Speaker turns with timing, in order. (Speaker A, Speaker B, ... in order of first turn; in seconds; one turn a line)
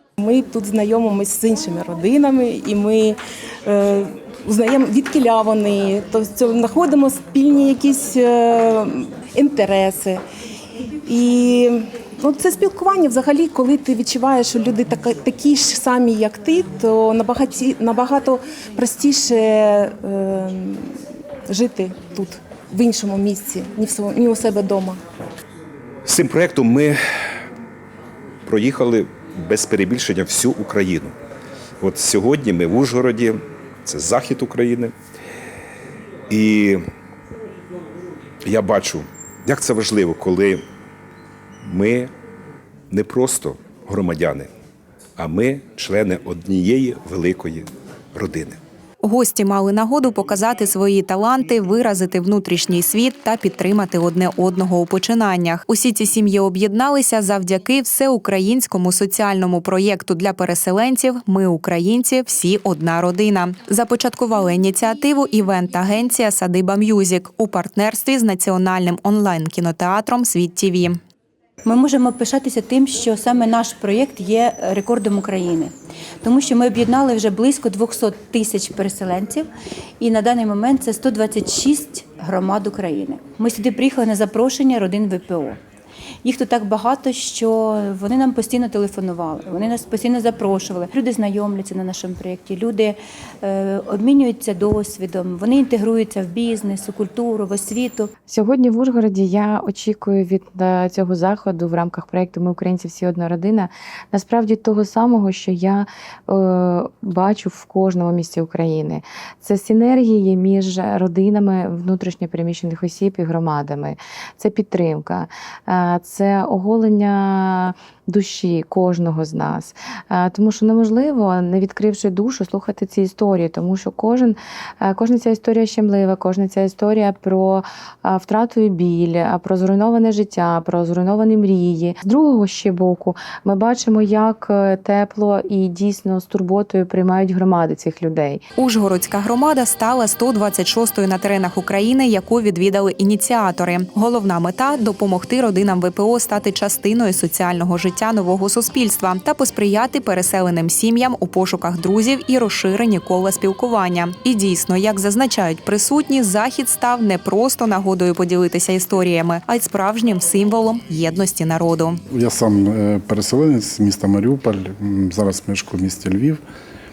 Speaker A: 0.2-10.2
Speaker A: 11.1-20.9
Speaker A: 21.5-25.0
Speaker B: 26.1-27.0
Speaker B: 28.4-31.1
Speaker B: 31.8-34.9
Speaker B: 36.3-36.8
Speaker B: 38.5-40.6
Speaker B: 41.6-42.1
Speaker B: 42.9-44.5
Speaker B: 45.2-48.6
Speaker C: 49.0-71.0
Speaker D: 71.7-75.7
Speaker D: 76.2-79.5
Speaker D: 80.0-85.6
Speaker D: 86.2-98.1
Speaker E: 98.3-138.4
Speaker C: 138.6-162.0
Speaker F: 162.1-166.4